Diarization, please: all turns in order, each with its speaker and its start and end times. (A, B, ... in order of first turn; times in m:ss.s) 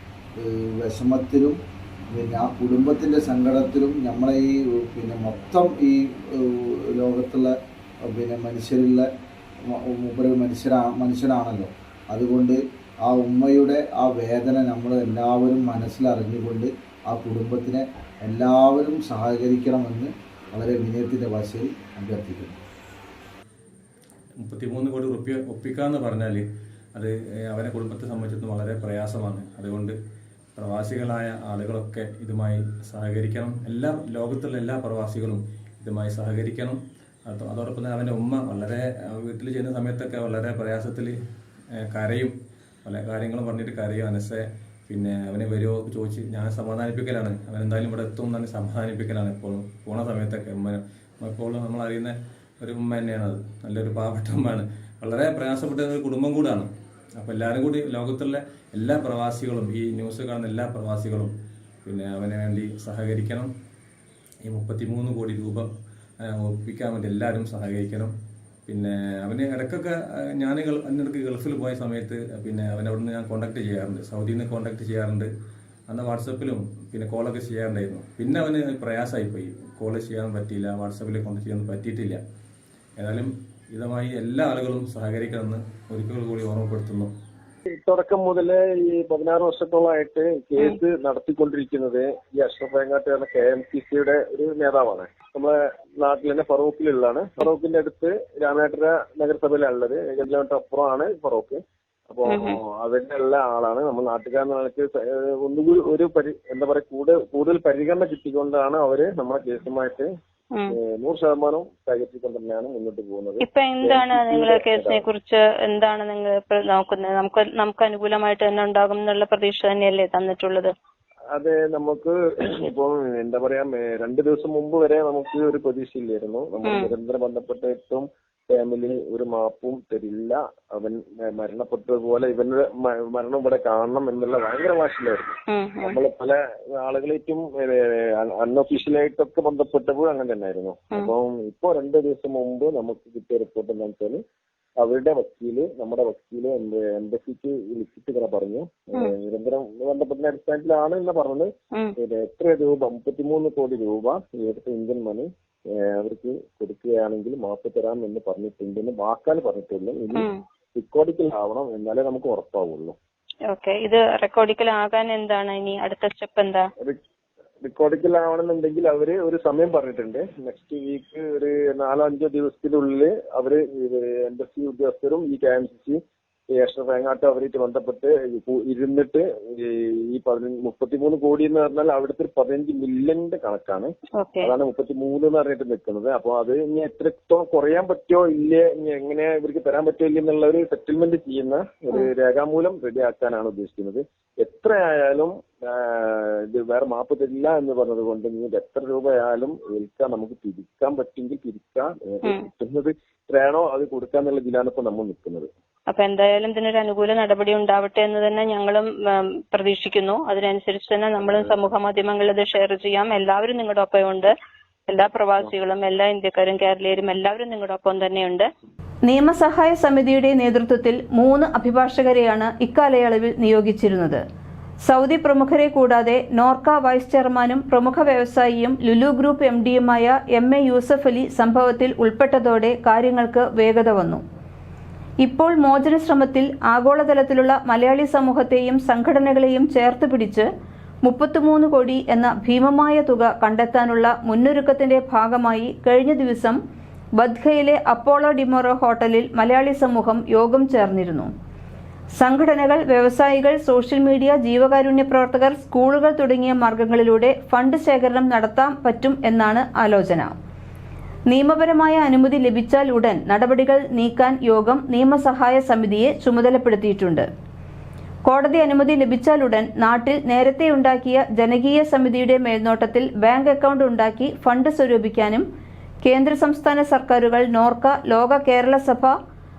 0:00.4-0:01.6 A
0:02.1-0:07.5 A
0:08.1-0:09.1 A
0:09.7-0:22.6 A
0:24.4-0:26.4 B
0:26.9-0:29.9 B
0:30.6-0:41.1 B
0:41.8-0:42.3 B
0:42.8-1:01.3 B
1:01.8-1:03.5 B
1:04.4-1:05.6 B
1:06.2-1:08.1 B
1:08.7-1:15.3 B
1:15.9-1:22.2 B
1:23.0-1:27.1 B
1:27.8-1:50.1 C
1:42.3-1:42.5 D
1:50.7-1:55.0 C
1:53.4-2:00.7 D
2:01.3-2:24.2 C
2:06.6-2:06.9 D
2:15.5-2:16.0 D
2:24.8-2:35.3 C
2:35.8-2:43.0 C
2:43.5-2:46.7 D
2:47.6-2:56.0 C
2:56.5-3:03.9 C
3:04.2-3:04.5 D
3:04.4-3:25.5 C
3:25.9-3:34.3 D
3:31.2-3:31.6 C
3:34.9-3:38.5 D
3:39.0-3:44.2 E
3:44.8-3:54.2 E
3:55.2-4:00.5 E
4:01.0-4:06.6 E
4:07.2-4:11.3 E
4:12.2-4:20.3 E
4:21.3-4:27.3 E
4:28.3-4:35.4 E
4:36.0-4:39.1 E